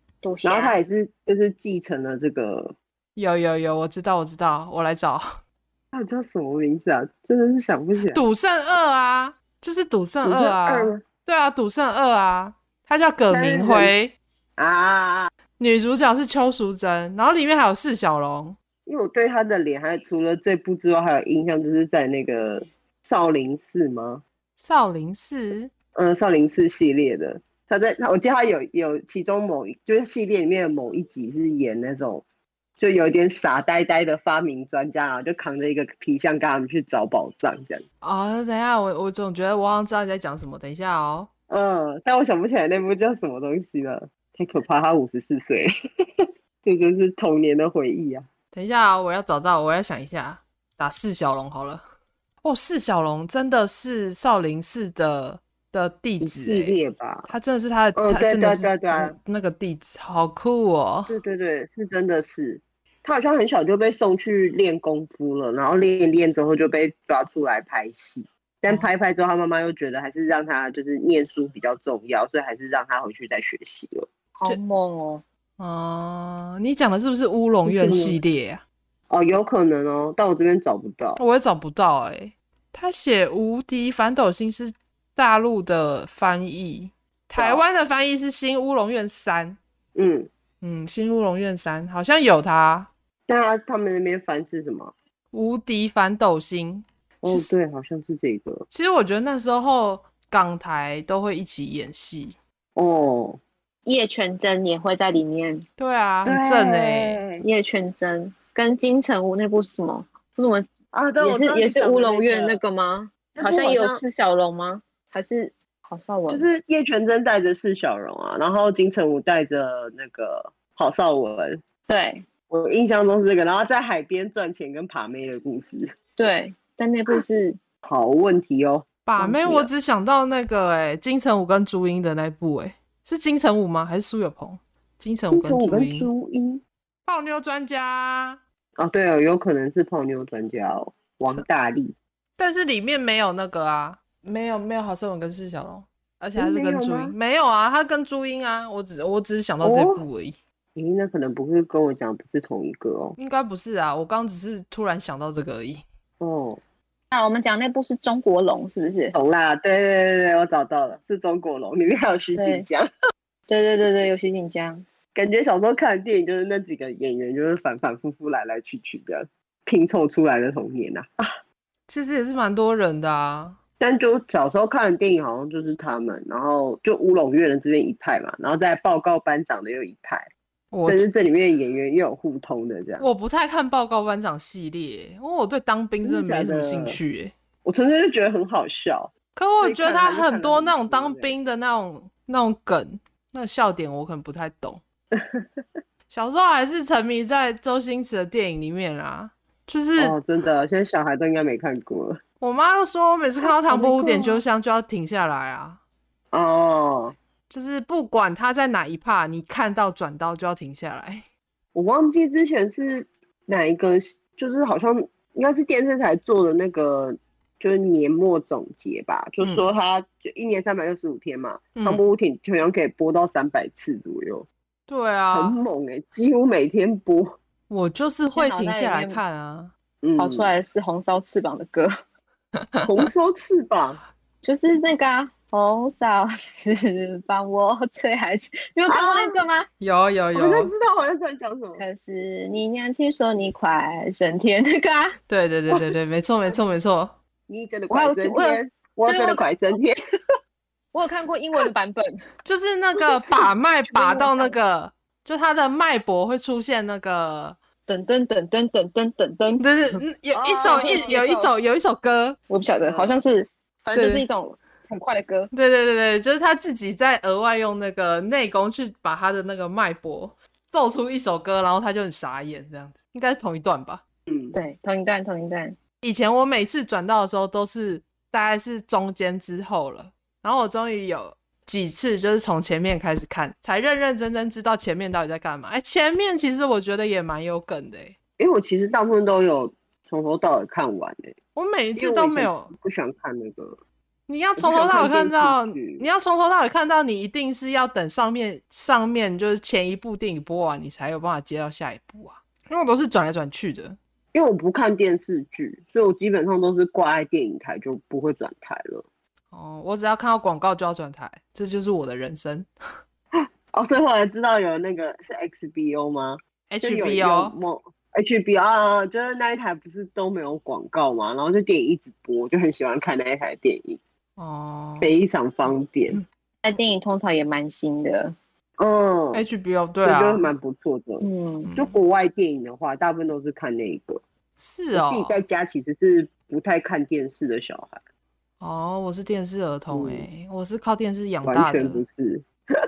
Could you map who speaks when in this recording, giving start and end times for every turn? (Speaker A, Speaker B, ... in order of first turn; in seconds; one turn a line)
Speaker A: 0.2-0.8
Speaker B: 0.4-2.7
Speaker C: 3.1-5.4
Speaker B: 5.9-8.2
Speaker C: 8.1-14.1
Speaker B: 10.2-11.0
Speaker B: 13.3-13.9
Speaker B: 14.6-15.3
Speaker C: 15.6-18.6
Speaker B: 18.9-24.2
Speaker C: 24.6-25.7
Speaker B: 25.9-32.2
Speaker B: 32.8-37.8
Speaker C: 38.0-41.3
Speaker B: 41.5-48.3
Speaker C: 48.5-51.8
Speaker C: 52.4-56.8
Speaker B: 56.2-57.3
Speaker C: 57.3-61.1
Speaker B: 58.0-59.1
Speaker B: 61.1-74.1
Speaker A: 74.4-75.2
Speaker C: 75.6-78.6
Speaker B: 77.6-78.2
Speaker B: 79.1-81.2
Speaker C: 81.2-89.6
Speaker B: 87.3-87.6
Speaker B: 89.9-90.3
Speaker C: 90.6-92.9
Speaker B: 93.3-94.9
Speaker C: 95.3-97.5
Speaker B: 97.2-98.7
Speaker C: 98.7-102.3
Speaker B: 102.8-103.4
Speaker A: 103.8-105.7
Speaker C: 105.8-107.2
Speaker B: 106.2-107.4
Speaker A: 107.4-110.7
Speaker B: 110.9-112.6
Speaker A: 111.2-116.5
Speaker B: 113.3-114.0
Speaker B: 116.3-121.6
Speaker A: 121.9-122.2
Speaker B: 122.5-125.9
Speaker A: 126.2-127.6
Speaker B: 127.8-129.7
Speaker C: 129.0-136.1
Speaker B: 135.3-136.6
Speaker C: 137.1-138.4
Speaker B: 138.8-141.9
Speaker C: 142.4-150.3
Speaker B: 146.3-147.1
Speaker B: 149.6-150.0
Speaker B: 150.8-153.2
Speaker C: 153.2-155.8
Speaker B: 156.2-156.6
Speaker A: 157.1-159.2
Speaker B: 159.1-162.9
Speaker A: 162.3-162.7
Speaker A: 163.5-164.8
Speaker B: 165.1-171.3
Speaker C: 171.9-173.6
Speaker B: 173.8-180.3
Speaker C: 180.7-181.1
Speaker B: 180.8-183.1
Speaker C: 183.0-187.3
Speaker B: 186.0-187.0
Speaker B: 187.6-191.3
Speaker C: 189.3-194.8
Speaker B: 195.1-195.4
Speaker C: 196.1-200.2
Speaker B: 200.0-202.2
Speaker C: 202.4-205.8
Speaker B: 203.6-204.4
Speaker B: 206.3-207.2
Speaker C: 207.5-211.2
Speaker B: 211.7-224.5
Speaker C: 221.7-222.0
Speaker C: 224.9-225.6
Speaker B: 225.3-227.4
Speaker C: 227.7-229.7
Speaker A: 228.3-229.2
Speaker B: 230.0-230.5
Speaker A: 230.2-231.9
Speaker B: 232.8-234.0
Speaker A: 234.4-239.7
Speaker B: 238.9-239.4
Speaker C: 239.8-240.7
Speaker B: 240.3-241.8
Speaker A: 241.8-245.2
Speaker C: 245.3-247.1
Speaker B: 247.5-250.0
Speaker A: 247.9-249.4
Speaker A: 250.9-252.2
Speaker C: 252.4-257.6
Speaker A: 253.9-254.5
Speaker A: 257.9-259.6
Speaker C: 259.6-262.4
Speaker B: 260.3-261.1
Speaker A: 260.6-261.5
Speaker A: 262.5-265.5
Speaker B: 262.9-263.1
Speaker C: 263.9-264.2
Speaker C: 265.5-274.0
Speaker B: 274.3-274.5
Speaker A: 274.5-275.8
Speaker C: 276.0-288.1
Speaker B: 288.4-291.3
Speaker C: 291.5-292.7
Speaker B: 291.9-293.8
Speaker C: 294.3-304.0
Speaker B: 294.6-296.0
Speaker B: 304.3-309.1
Speaker C: 309.5-312.7
Speaker B: 313.3-324.0
Speaker C: 316.7-317.5
Speaker C: 324.4-325.2
Speaker B: 325.0-326.2
Speaker A: 326.6-328.3
Speaker B: 328.8-329.4
Speaker C: 329.3-330.5
Speaker B: 330.0-334.2
Speaker A: 331.2-331.7
Speaker C: 331.7-331.9
Speaker C: 334.6-335.4
Speaker B: 334.9-338.0
Speaker C: 338.6-342.0
Speaker B: 339.9-340.2
Speaker B: 341.4-342.4